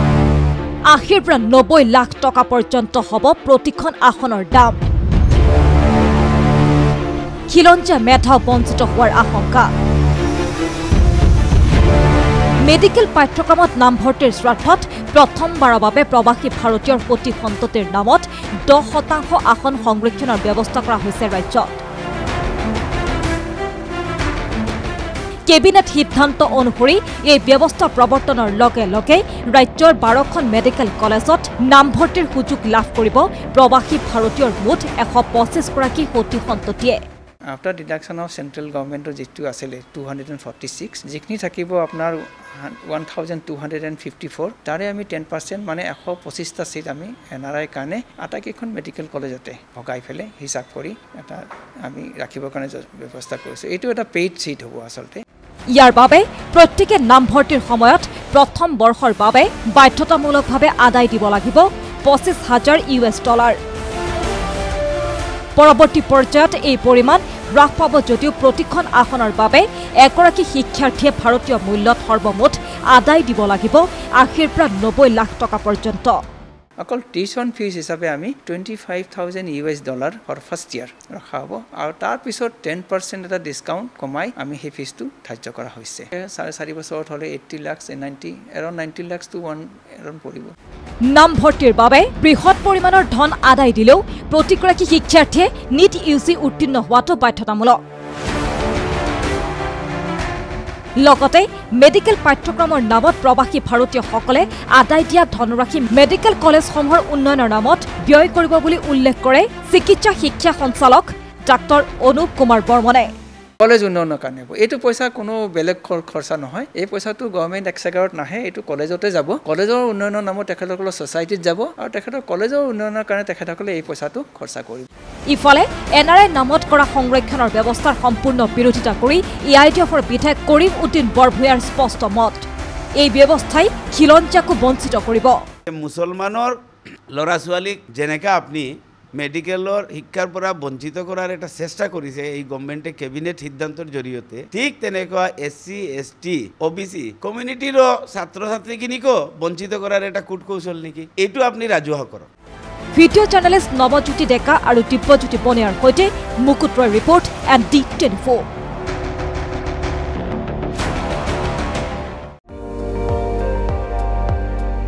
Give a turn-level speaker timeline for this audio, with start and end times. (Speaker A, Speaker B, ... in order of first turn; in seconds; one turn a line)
Speaker A: 0.8-4.8
Speaker A: 7.5-9.7
Speaker A: 12.6-21.8
Speaker A: 25.5-37.0
Speaker B: 37.5-55.2
Speaker A: 55.7-63.6
Speaker A: 65.6-76.2
Speaker B: 76.8-90.5
Speaker A: 91.0-97.8
Speaker A: 101.0-113.1
Speaker B: 113.6-124.9
Speaker A: 125.3-135.4
Speaker C: 135.7-136.6
Speaker C: 137.1-152.3
Speaker A: 152.9-158.4